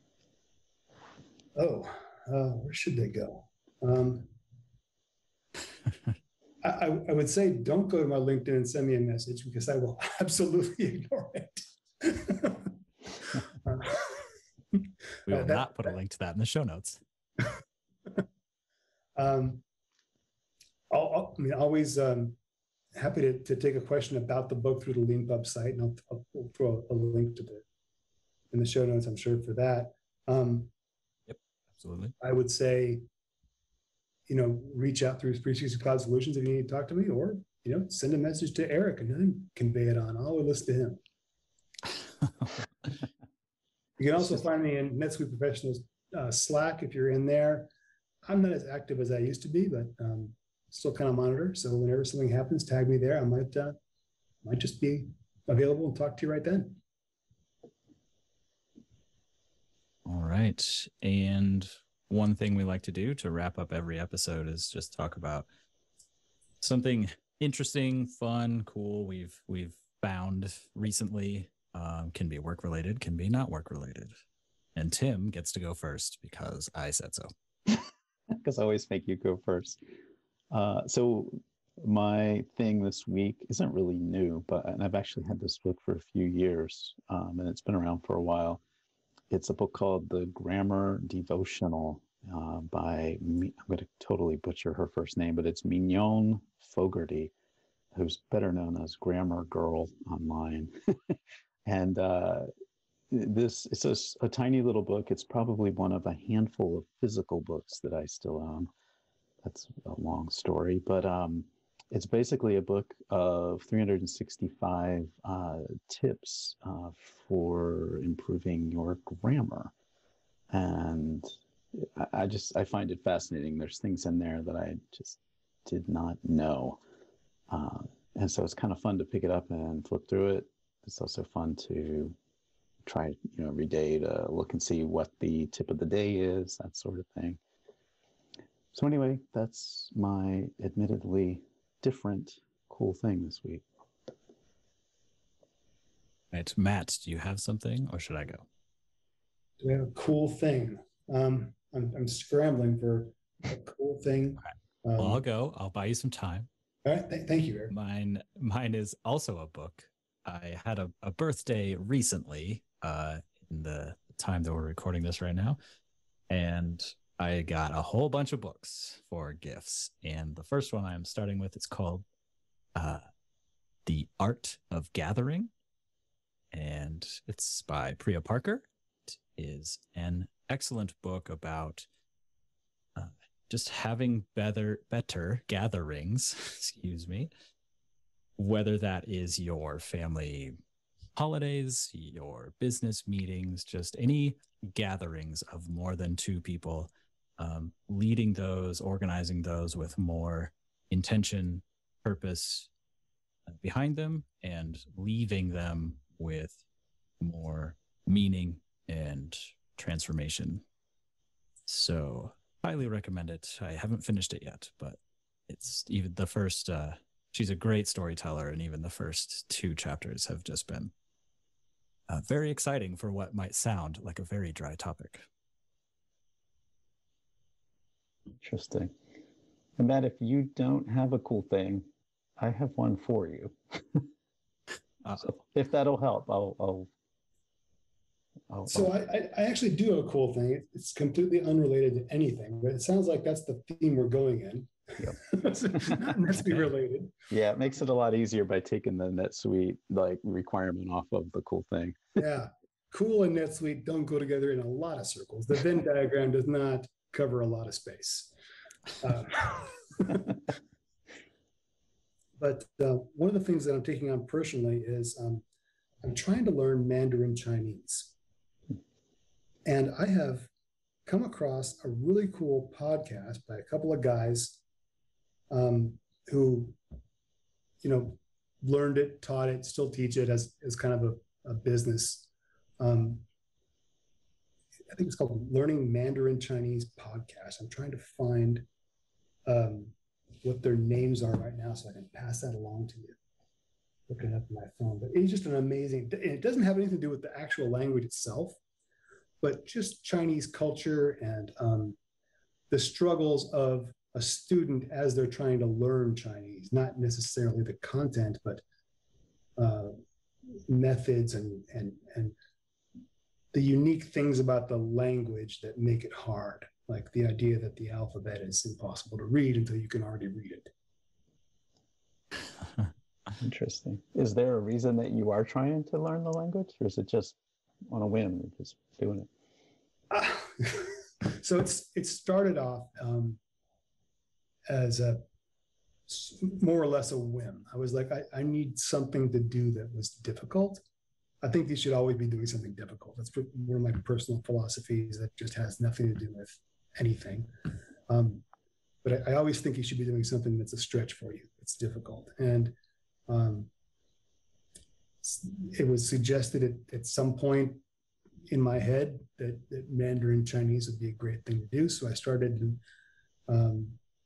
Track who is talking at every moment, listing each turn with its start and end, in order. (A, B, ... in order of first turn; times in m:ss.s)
0:01.6-0:04.3 A
0:06.6-0:15.8 A
0:15.3-0:17.0 B
0:19.2-0:19.6 A
0:20.9-0:22.4 A
0:23.0-0:27.6 A
0:28.5-0:30.7 A
0:31.3-0:32.1 B
0:32.2-0:33.0 A
0:34.3-0:41.0 A
0:44.0-0:47.7 A
0:48.2-0:53.8 A
0:54.4-0:56.8 A
1:00.1-1:05.5 B
1:06.6-1:14.1 B
1:14.8-1:17.3 B
1:18.3-1:19.8 C
1:20.5-1:28.6 C
1:29.3-1:37.3 C
1:37.9-1:42.5 C
1:43.1-1:48.7 C
1:49.4-1:59.7 C
2:00.5-2:06.8 C
2:07.5-2:12.2 C
2:12.8-2:17.4 C
2:18.7-2:23.6 C
2:26.3-2:28.5 B
2:29.6-2:35.2 A
2:35.0-2:36.5 B
2:36.8-2:37.7 A
2:37.7-2:45.6 B
2:46.3-2:52.0 B
2:52.8-2:53.0 B
2:53.9-2:55.5 B
2:56.5-3:01.9 B
3:03.0-3:07.3 B
3:08.4-3:10.6 B
3:11.2-3:22.7 B
3:23.5-3:26.6 B
3:27.2-3:30.6 B
3:31.7-3:35.0 B
3:35.5-3:40.9 B
3:42.1-3:45.3 B
3:48.4-3:48.9 C
3:49.8-3:51.9 C
3:52.4-3:54.1 C
3:55.0-3:55.3 B
3:55.2-3:56.9 C
3:58.5-3:59.0 C
3:58.7-4:07.1 A
4:05.8-4:06.1 C
4:07.3-4:12.2 C
4:12.2-4:18.3 A
4:19.0-4:20.3 A
4:22.4-4:25.4 A
4:26.0-4:28.2 A
4:29.7-4:30.5 A
4:31.1-4:34.6 A
4:35.5-4:36.8 A
4:37.8-4:43.2 A
4:44.9-4:48.7 A
4:49.5-4:53.2 A
4:54.1-4:58.6 A
4:59.4-5:02.0 A
5:02.7-5:08.6 A
5:09.6-5:10.0 A
5:10.5-5:12.4 A
5:13.5-5:20.7 A
5:23.4-5:29.3 C
5:30.1-5:33.4 A
5:34.7-5:35.3 A
5:36.1-5:40.8 A
5:41.4-5:48.4 A
5:49.0-5:52.8 A
5:53.3-5:53.7 A
5:55.2-5:57.8 A
5:58.5-6:02.8 A
6:03.5-6:04.0 A